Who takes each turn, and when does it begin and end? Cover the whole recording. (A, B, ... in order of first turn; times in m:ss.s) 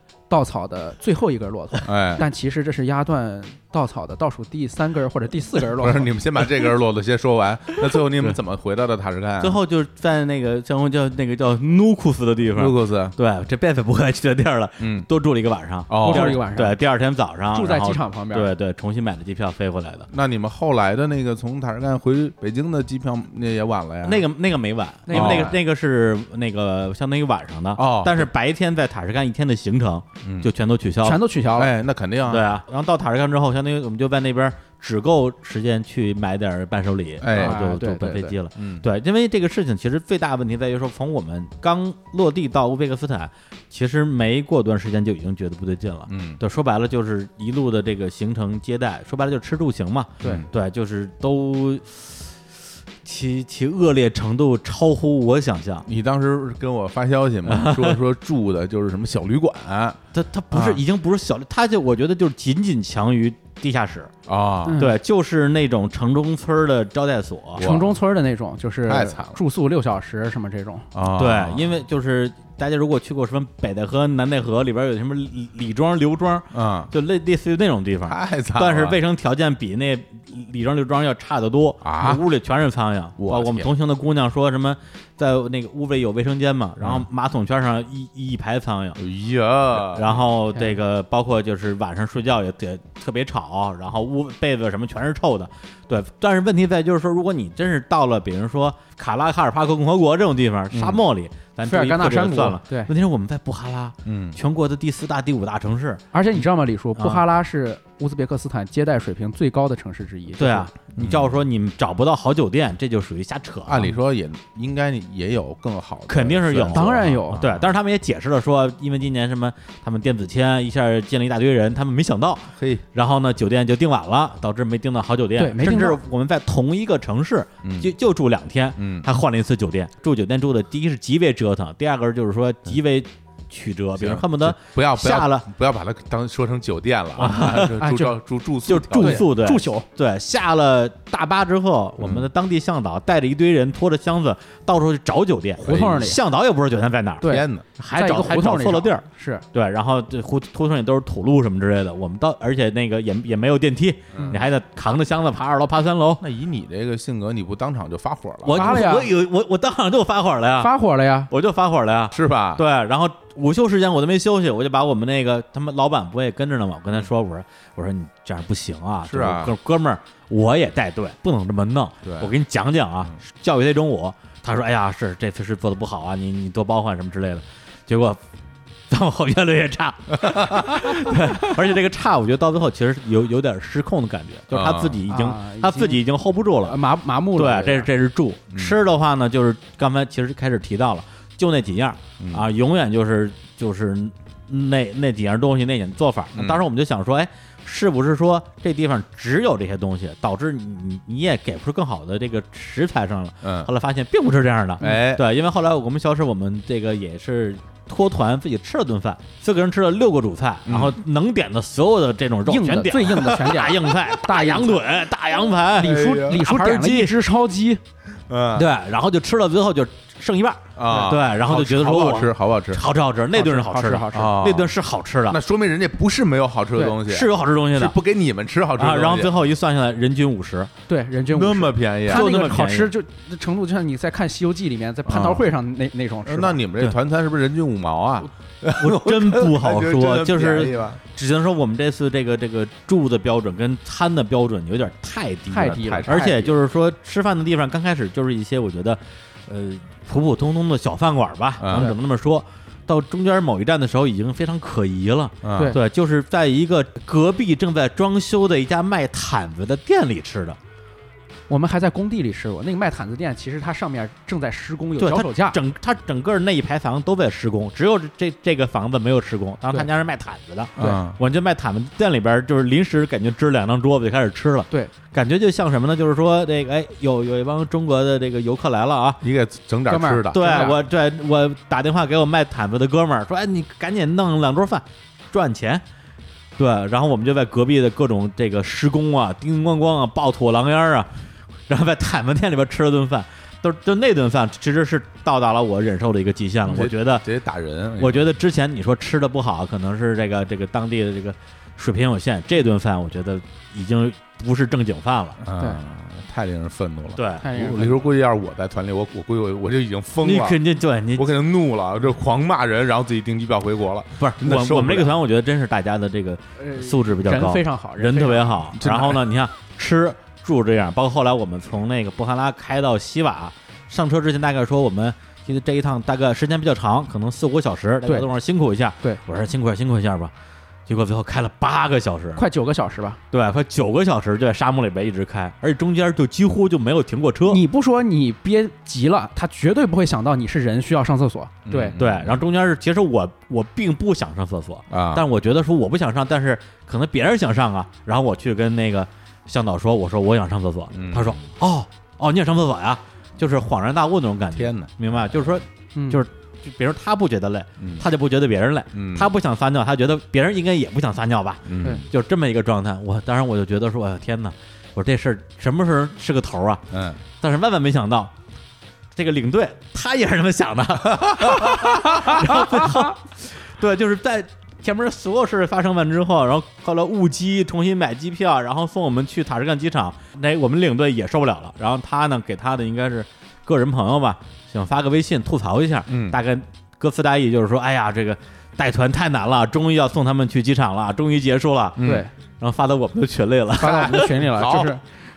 0:00.3-0:06.1 A
0:01.8-0:02.2 B
0:05.8-0:09.6 B
0:09.4-0:20.1 C
0:12.5-0:13.2 B
0:14.8-0:15.1 B
0:15.9-0:16.4 B
0:16.0-0:16.8 A
0:17.5-0:18.5 A
0:20.1-0:24.2 B
0:24.0-0:31.2 C
0:25.1-0:25.6 A
0:25.1-0:25.5 B
0:27.8-0:28.3 B
0:30.2-0:30.5 B
0:31.0-0:31.7 A
0:31.6-0:32.5 B
0:32.3-0:52.3 C
0:37.2-0:37.6 B
0:37.3-0:38.4 A
0:38.6-0:38.9 B
0:46.1-0:46.4 B
0:50.2-0:50.5 B
0:53.0-0:55.9 C
0:55.9-1:00.0 B
0:57.5-0:58.0 C
1:00.1-1:04.1 C
1:00.5-1:00.8 B
1:04.3-1:04.8 B
1:04.7-1:04.9 A
1:04.8-1:07.7 C
1:07.6-1:08.0 B
1:07.6-1:10.9 A
1:08.9-1:09.4 B
1:10.9-1:11.7 B
1:11.1-1:29.0 C
1:16.5-1:16.9 B
1:18.1-1:19.0 B
1:21.8-1:22.2 B
1:23.2-1:23.7 B
1:29.0-1:30.2 B
1:29.8-1:46.0 C
1:40.7-1:41.0 B
1:41.7-1:42.9 A
1:44.1-1:44.4 B
1:46.1-1:50.7 A
1:47.0-1:47.2 C
1:50.4-1:54.0 C
1:51.0-1:51.4 B
1:53.7-1:57.7 B
1:56.1-2:15.5 C
1:56.7-1:57.4 A
2:02.6-2:02.8 B
2:05.4-2:06.0 A
2:07.6-2:07.9 B
2:08.8-2:09.1 B
2:14.0-2:19.3 B
2:17.2-2:18.0 C
2:17.6-2:18.2 A
2:18.7-2:36.2 C
2:19.0-2:19.9 A
2:22.0-2:22.3 B
2:25.6-2:26.2 A
2:27.2-2:29.4 A
2:27.3-2:27.7 B
2:34.1-2:34.4 B
2:36.2-2:38.8 B
2:38.4-2:40.7 C
2:38.5-2:39.1 A
2:40.6-2:41.3 A
2:41.3-2:58.2 C
2:42.1-2:42.6 B
2:49.1-2:49.5 B
2:52.0-2:52.3 B
2:58.9-3:06.8 C
3:00.2-3:00.8 B
3:04.5-3:05.0 B
3:05.1-3:06.0 A
3:06.6-3:07.9 A
3:07.4-3:37.2 C
3:08.5-3:08.8 B
3:12.2-3:12.5 B
3:16.3-3:16.6 B
3:23.4-3:23.7 B
3:24.8-3:25.2 B
3:30.7-3:31.0 B
3:32.5-3:34.8 A
3:35.8-3:37.8 A
3:35.8-3:36.4 B
3:38.3-3:38.7 B
3:38.5-3:45.4 C
3:40.8-3:42.8 B
3:40.9-3:41.1 A
3:43.3-3:44.4 A
3:44.1-3:44.7 B
3:45.3-3:49.3 B
3:47.0-3:48.0 C
3:48.8-3:50.7 C
3:50.9-3:56.6 A
3:51.3-3:52.3 B
3:52.1-3:52.9 C
3:55.1-3:55.4 B
3:56.3-4:01.0 B
3:58.7-4:20.6 C
4:05.5-4:06.5 A
4:05.6-4:06.5 B
4:11.6-4:11.9 B
4:15.4-4:15.8 B
4:21.5-4:25.6 A
4:25.0-4:39.2 C
4:30.8-4:31.2 B
4:39.2-4:40.7 B
4:39.9-4:40.8 A
4:40.3-4:45.8 C
4:46.6-4:51.1 C
4:51.7-4:57.3 C
4:56.7-4:58.3 B
4:58.0-5:05.4 C
5:05.4-5:10.6 B
5:07.2-5:07.6 C
5:07.4-5:08.0 A
5:10.2-5:11.4 C
5:11.2-5:15.1 B
5:14.2-5:30.3 C
5:16.6-5:18.6 A
5:18.8-5:19.2 B
5:30.9-5:32.5 C
5:32.4-5:33.2 A
5:33.3-5:37.6 C
5:37.5-5:41.9 A
5:41.7-5:42.4 B
5:41.9-6:06.9 C
5:44.9-5:45.3 B
5:50.9-5:51.5 B
5:54.6-5:54.9 B
5:56.0-5:56.2 A
5:57.8-5:58.0 B
5:59.0-5:59.3 B
6:01.7-6:02.0 B
6:06.9-6:07.2 B
6:07.4-6:08.3 C
6:09.2-6:34.4 C
6:11.1-6:11.9 B
6:26.1-6:26.4 B
6:32.0-6:32.3 B
6:32.0-6:32.3 A
6:33.8-6:35.0 A
6:33.8-6:34.9 B